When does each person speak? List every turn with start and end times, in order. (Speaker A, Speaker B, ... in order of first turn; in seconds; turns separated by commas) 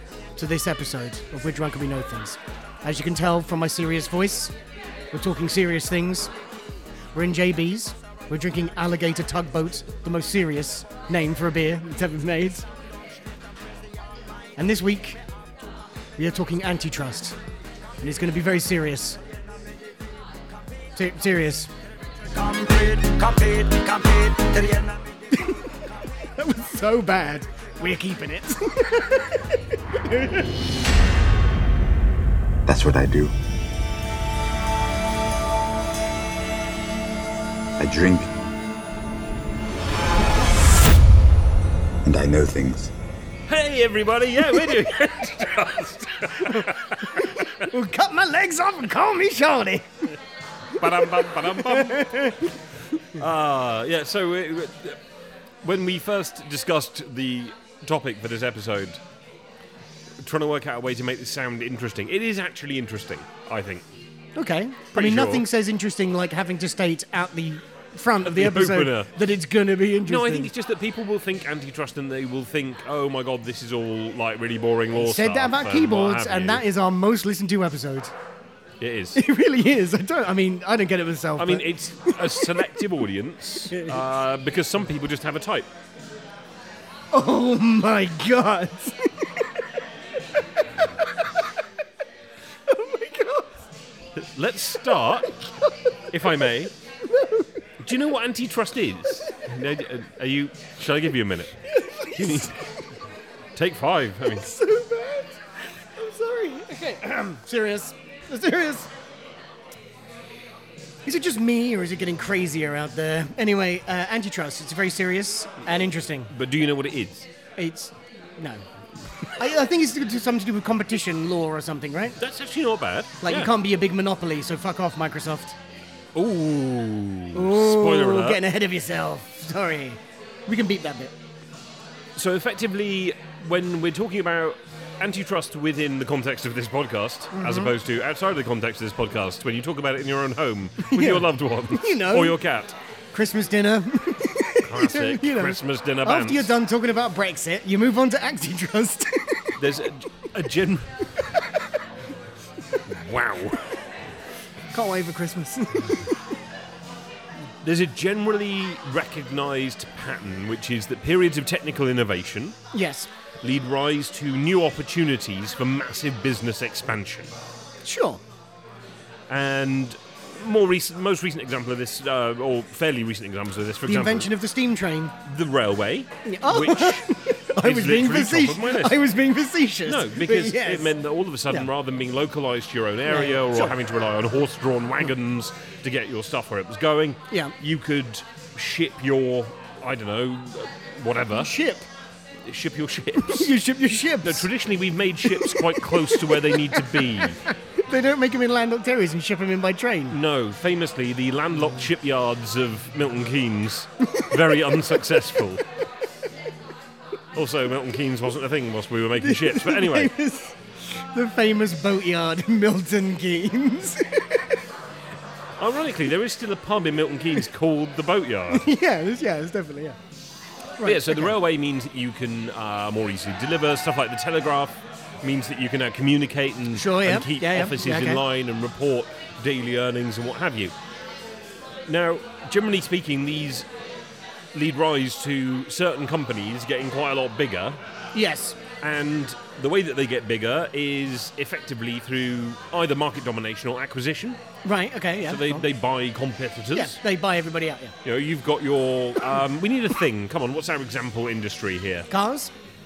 Speaker A: 0.4-4.5, Speaker A: 5.1-6.3, Speaker A: 7.1-12.7, Speaker A: 14.6-15.2, Speaker A: 16.2-17.4, Speaker A: 18.0-19.2, Speaker A: 20.9-21.7, Speaker B: 22.3-25.0, Speaker A: 26.2-30.4, Speaker C: 32.7-33.3, Speaker C: 37.8-38.3, Speaker C: 42.0-42.9, Speaker D: 43.5-47.5, Speaker A: 46.4-50.1, Speaker D: 50.8-52.3, Speaker A: 50.8-52.5, Speaker D: 53.1-55.0, Speaker D: 55.6-59.0, Speaker D: 60.2-63.8, Speaker A: 64.3-70.5, Speaker D: 64.9-65.5, Speaker D: 68.2-69.1, Speaker D: 70.0-76.6, Speaker A: 74.9-78.1, Speaker D: 78.8-79.2, Speaker A: 79.1-82.6, Speaker D: 81.4-85.7, Speaker A: 83.7-84.0, Speaker A: 87.1-89.4, Speaker A: 92.7-93.5, Speaker D: 94.2-95.3, Speaker D: 96.1-96.7, Speaker A: 97.1-97.4, Speaker D: 97.8-102.5, Speaker A: 101.7-102.6, Speaker D: 103.5-104.5, Speaker A: 104.3-105.4, Speaker A: 106.0-108.9, Speaker A: 111.0-116.3, Speaker D: 116.3-117.3, Speaker A: 117.6-118.6, Speaker A: 119.3-122.2, Speaker D: 122.2-123.5, Speaker A: 123.2-125.5, Speaker D: 126.1-128.4, Speaker A: 127.3-131.1, Speaker D: 132.2-142.7, Speaker A: 137.3-137.7, Speaker A: 140.8-142.4, Speaker A: 143.1-149.5, Speaker D: 144.6-146.5, Speaker D: 149.6-150.9, Speaker D: 152.9-153.7, Speaker A: 154.7-156.1, Speaker D: 157.6-162.6, Speaker A: 162.7-163.1, Speaker D: 163.4-167.3, Speaker A: 167.8-168.2, Speaker D: 169.3-174.3, Speaker A: 173.8-175.1, Speaker D: 175.2-179.0, Speaker A: 176.2-180.9, Speaker D: 179.8-191.5, Speaker A: 183.1-183.8, Speaker A: 191.3-191.8, Speaker D: 192.4-193.5, Speaker A: 193.2-194.5, Speaker D: 194.2-197.4, Speaker A: 195.3-195.8, Speaker A: 196.3-200.2, Speaker D: 200.1-205.6, Speaker D: 207.3-210.1, Speaker A: 209.2-214.5, Speaker D: 215.6-218.7, Speaker A: 218.5-220.0, Speaker A: 220.8-221.4, Speaker D: 220.8-230.7, Speaker A: 226.7-228.2, Speaker D: 231.8-233.7, Speaker D: 234.5-237.8, Speaker A: 238.1-238.6, Speaker D: 238.8-244.4, Speaker A: 244.6-245.7, Speaker D: 245.2-247.0, Speaker A: 246.7-247.9, Speaker D: 248.0-252.1, Speaker A: 252.1-252.5